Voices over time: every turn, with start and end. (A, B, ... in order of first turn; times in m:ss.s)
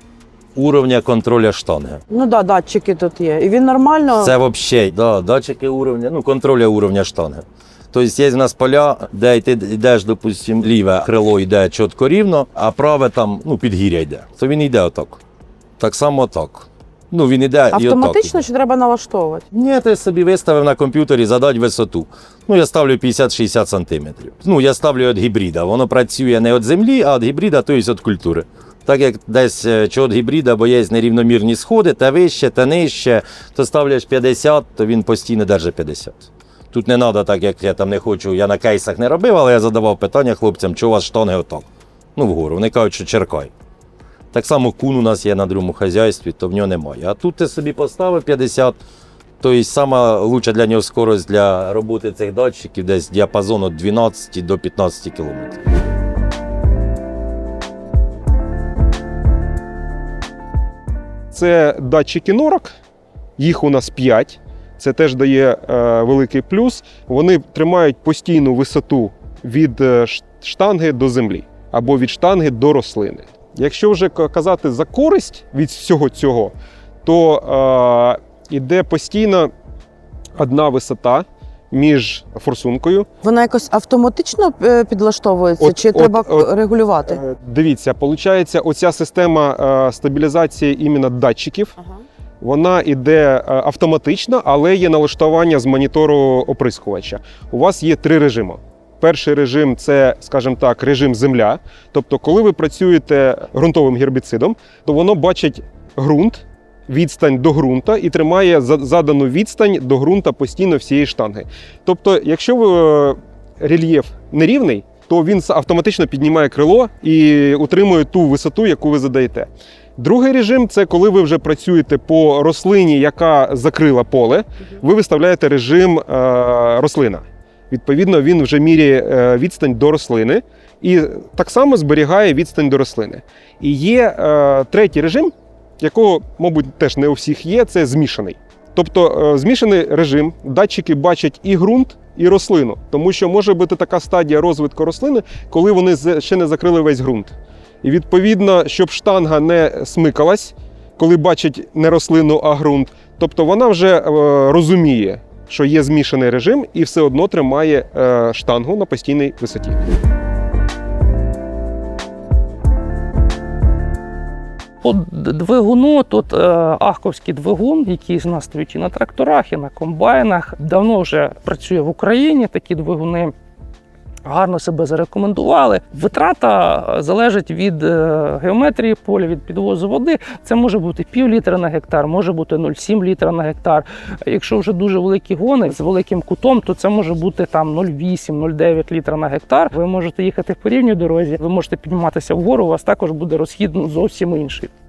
0:00.6-0:02.0 A
0:02.1-0:04.4 B
0:04.2-0:15.2 A
0:15.8-0:18.4 A
0:17.7-0:19.4 B
0:19.5-0:43.5 A
0:44.3-0:48.8 A
0:49.4-0:55.6 A
1:01.3-1:02.7 C
1:03.4-1:19.5 C
1:20.4-1:23.1 C
1:23.2-1:27.2 B
1:25.6-1:26.5 C
1:27.1-1:31.7 C
1:32.4-2:39.8 C
2:44.8-2:53.3 D
2:54.2-3:14.7 D